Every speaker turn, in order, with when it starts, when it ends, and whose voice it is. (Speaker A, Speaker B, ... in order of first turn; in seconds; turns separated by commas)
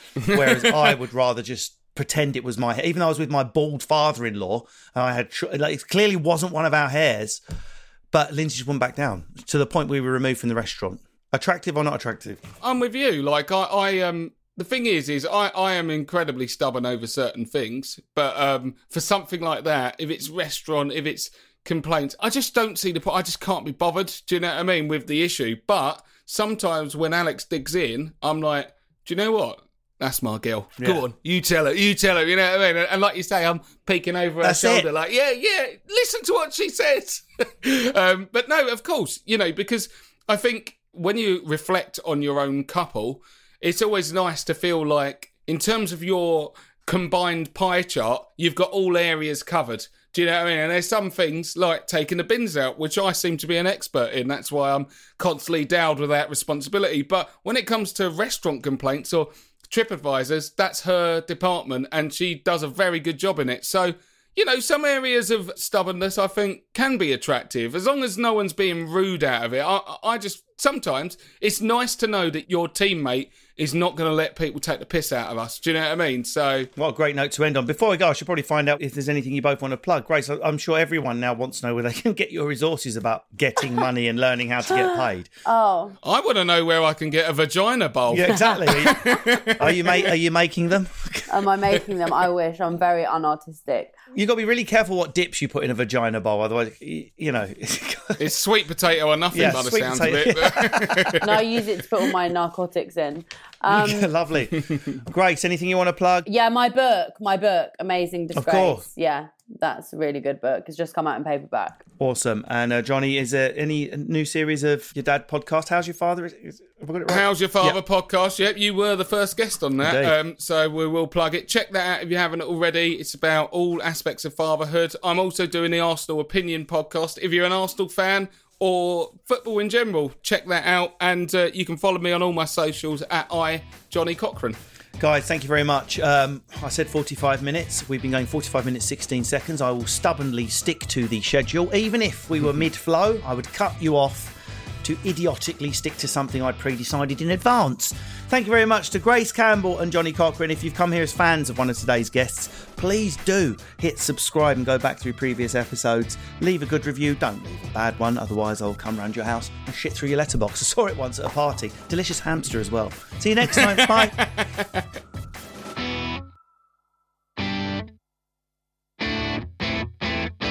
Speaker A: 0.2-7.4, Speaker A: 8.1-12.4, Speaker B: 12.6-76.7, Speaker A: 34.4-34.9, Speaker A: 76.8-85.3, Speaker C: 84.7-86.0, Speaker B: 86.0-90.1, Speaker A: 88.1-91.8, Speaker C: 91.3-93.9, Speaker A: 94.1-98.2, Speaker B: 98.2-101.2, Speaker A: 99.3-101.4, Speaker C: 101.2-104.1, Speaker A: 103.7-106.3, Speaker C: 106.3-111.8, Speaker A: 108.3-108.8, Speaker A: 112.0-117.8, Speaker B: 117.1-134.6, Speaker A: 119.8-120.1, Speaker A: 135.0-164.2, Speaker B: 163.7-164.8